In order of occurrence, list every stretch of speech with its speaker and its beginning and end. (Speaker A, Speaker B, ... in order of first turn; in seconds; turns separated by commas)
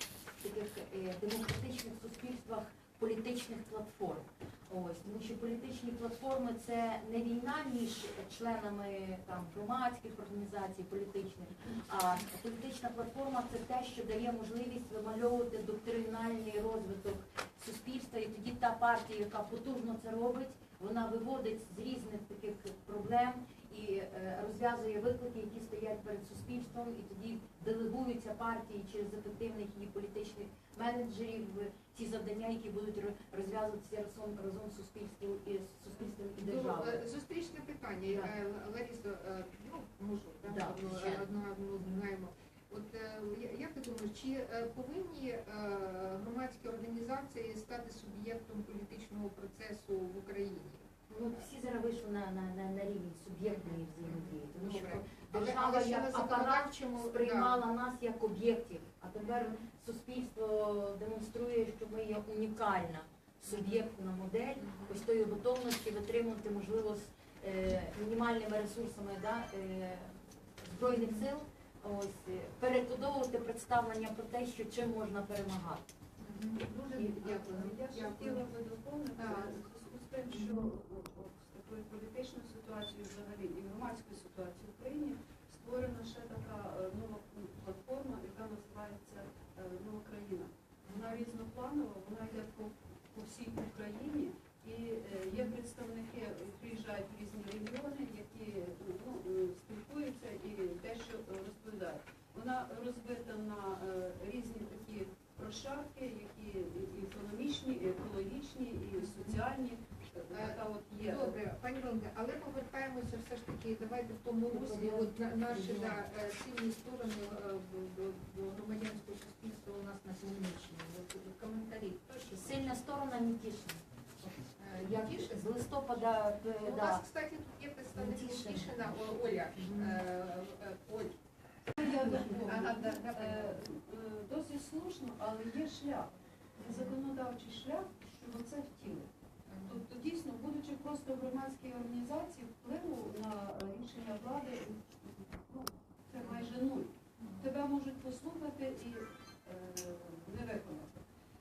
Speaker A: 0.4-37.0, Speaker B: 36.4-51.4, Speaker A: 38.0-38.3, Speaker A: 40.4-41.2, Speaker A: 51.1-75.8, Speaker B: 53.5-57.6, Speaker B: 59.2-59.6, Speaker B: 63.5-63.9, Speaker B: 64.6-65.0, Speaker B: 70.8-71.2, Speaker B: 76.2-78.5, Speaker C: 76.6-111.4, Speaker B: 79.2-79.6, Speaker B: 80.3-80.7, Speaker B: 90.9-91.1, Speaker B: 109.0-109.4, Speaker B: 110.3-122.8, Speaker A: 114.5-116.0, Speaker A: 122.3-124.3, Speaker B: 124.6-125.5, Speaker A: 124.9-127.0, Speaker B: 126.6-131.2, Speaker A: 127.9-130.0, Speaker B: 131.8-133.6, Speaker C: 131.8-139.1, Speaker B: 136.6-136.9, Speaker B: 139.5-139.8, Speaker C: 139.6-151.0, Speaker B: 147.2-147.4